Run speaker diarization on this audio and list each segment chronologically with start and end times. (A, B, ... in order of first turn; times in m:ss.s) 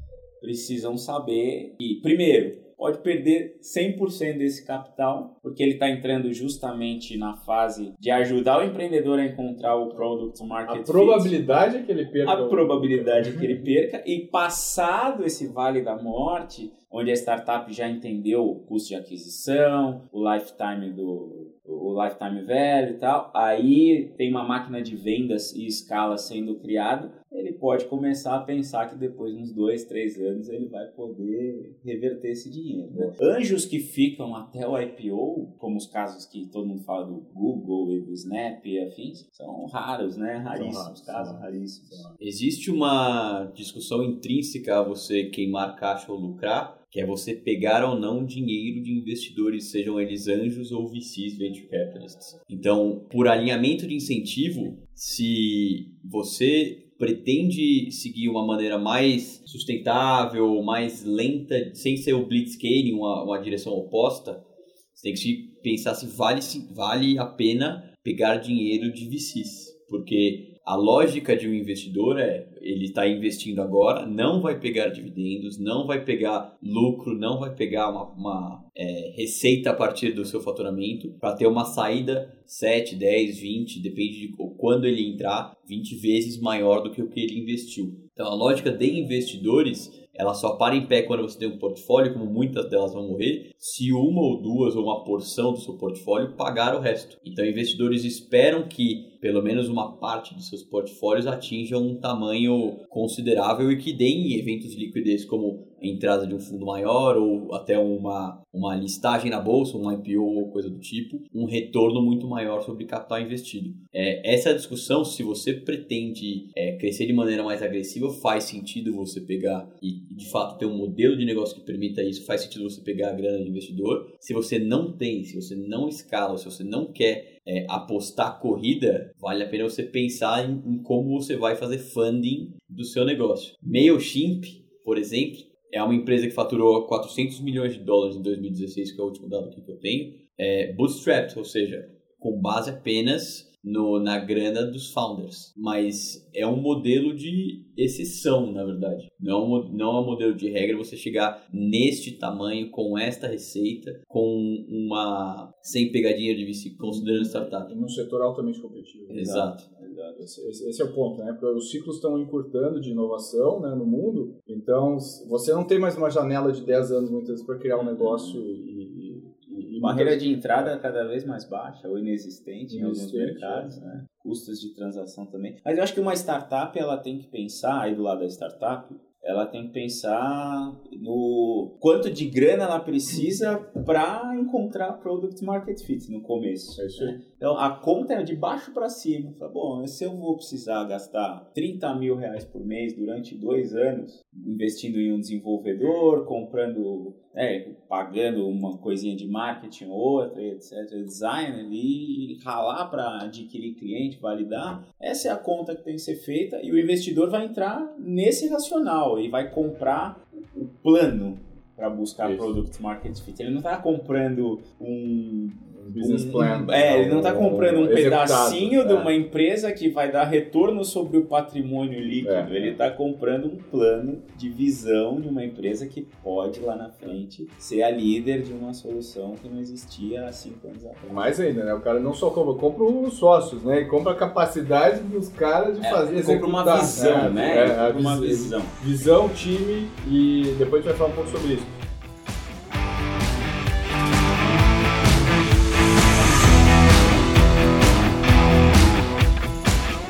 0:00.4-0:11.4 A
0:10.7-0:13.6 B
0:12.2-0:42.1 A
0:40.5-0:42.2 B
0:42.2-1:04.4 C
1:04.9-2:37.7 C
2:36.8-2:39.6 B
2:39.1-2:39.6 C
2:39.8-2:40.2 A
2:40.1-2:50.7 B
2:47.7-2:48.4 A
2:49.8-3:51.3 A
2:52.7-2:53.7 B
3:06.8-3:07.2 B
3:32.2-3:32.5 B
3:35.7-3:39.1 B
3:42.2-3:42.8 B
3:51.0-4:01.7 B
3:55.8-3:58.7 A